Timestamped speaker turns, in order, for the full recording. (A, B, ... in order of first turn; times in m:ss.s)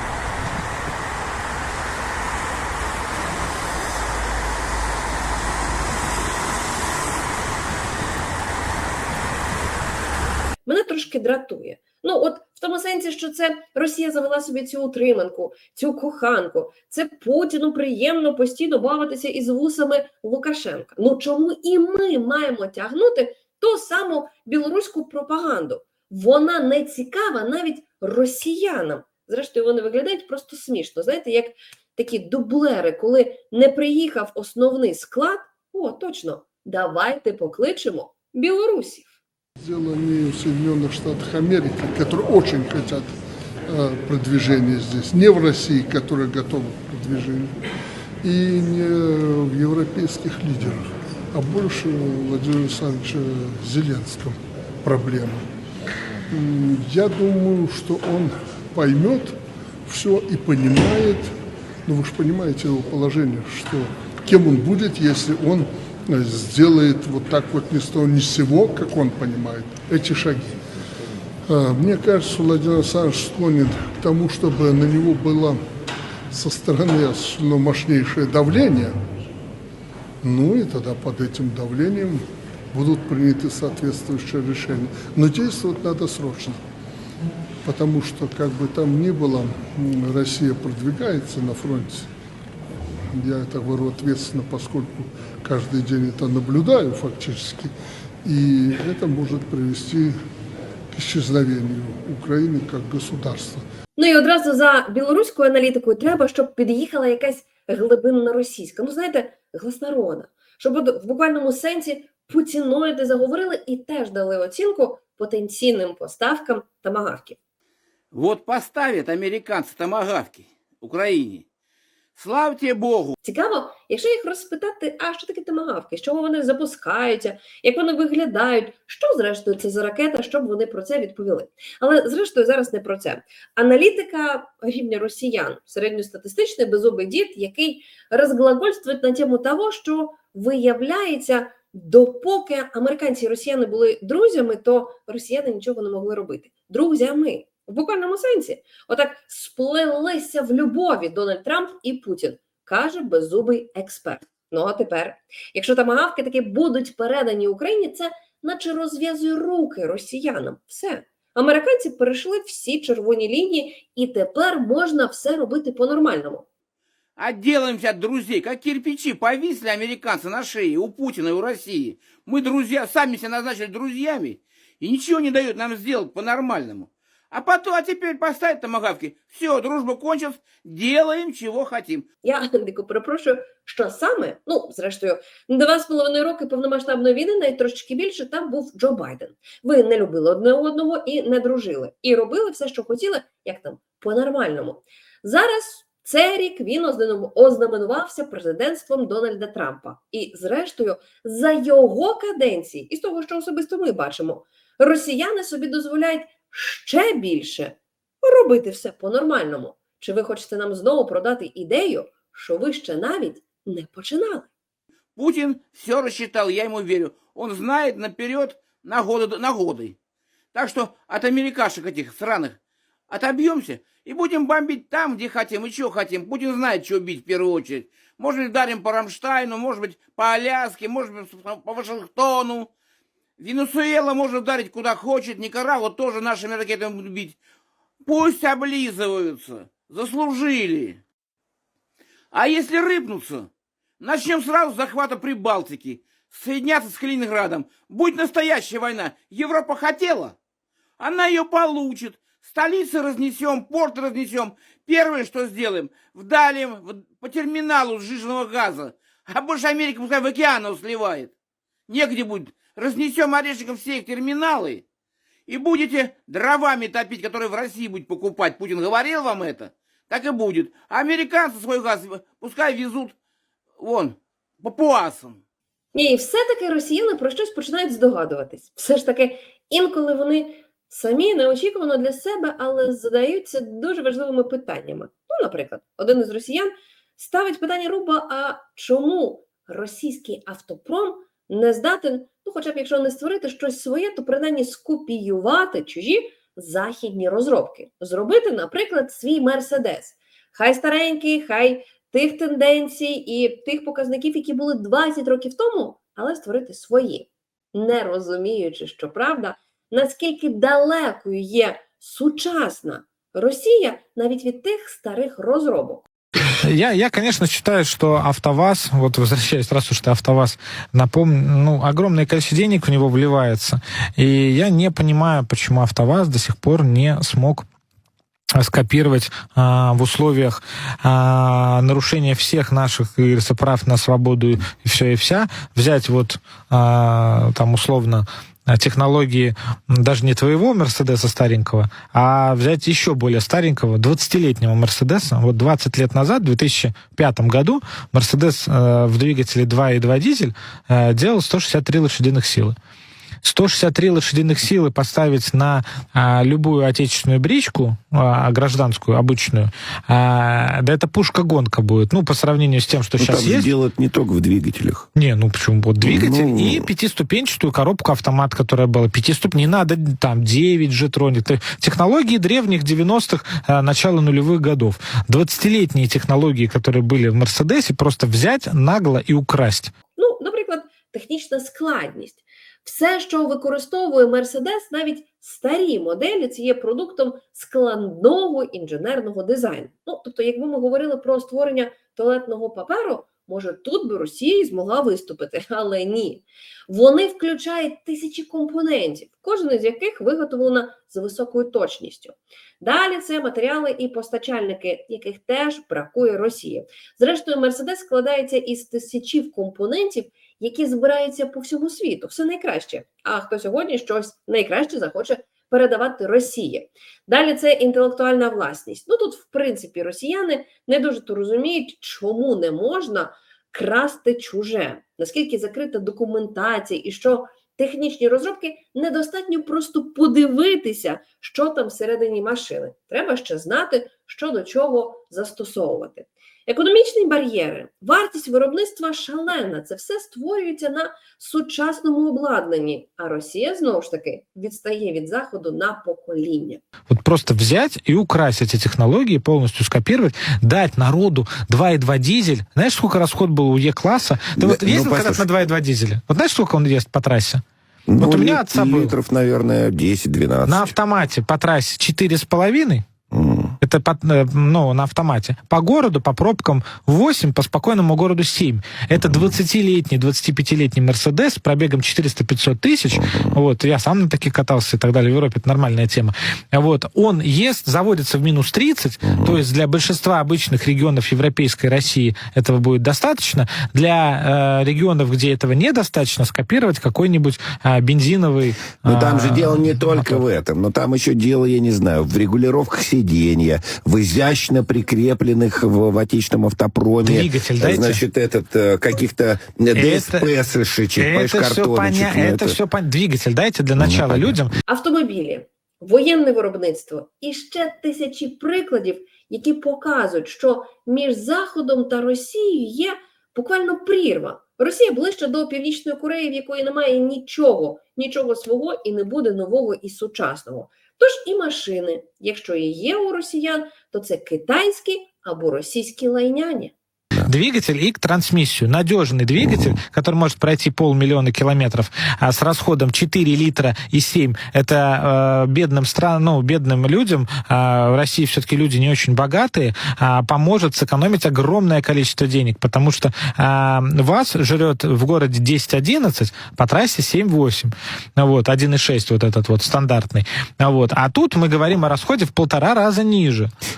0:10.7-0:39.1 A
0:39.6-0:43.1 B
0:43.7-0:47.5 B
0:48.2-0:55.5 B
0:56.3-1:01.3 B
1:01.9-1:10.5 B
1:11.5-1:15.6 B
1:16.3-1:19.0 B
1:20.2-1:26.6 B
1:27.6-1:32.1 B
1:33.1-1:40.2 B
1:40.9-1:43.6 B
1:44.0-1:57.4 A
1:58.1-2:01.4 C
2:02.2-2:03.2 C
2:03.2-2:46.5 A
2:47.2-3:02.1 C
3:02.2-3:34.5 A
3:35.2-3:40.0 C
3:40.5-3:42.6 C
3:43.1-3:52.7 C
3:53.4-3:57.4 C
3:58.0-4:01.0 C
4:02.3-4:03.5 C
4:04.0-4:10.4 C
4:11.0-4:21.3 C
4:21.9-4:24.8 C
4:25.5-4:33.1 C
4:33.8-4:35.4 C
4:35.9-5:16.1 A
5:16.6-5:27.7 D
5:28.6-5:52.8 D
5:53.4-6:03.7 D
6:03.2-6:05.1 E
6:05.2-6:19.9 D
6:06.0-6:06.9 E
6:20.2-7:26.8 A
7:27.1-7:37.6 D
7:34.6-7:35.5 E
7:38.1-7:40.9 E
7:38.2-7:39.2 D
7:40.7-7:43.0 D
7:43.3-7:43.8 E
7:43.8-8:10.4 D
7:49.2-7:49.5 E
7:53.1-7:53.6 E
7:59.2-7:59.6 E
8:09.0-8:22.8 E
8:17.2-8:18.2 D
8:20.0-8:20.5 D
8:21.2-8:24.7 D
8:24.0-8:24.6 E
8:24.9-8:46.9 A
8:47.4-9:13.7 D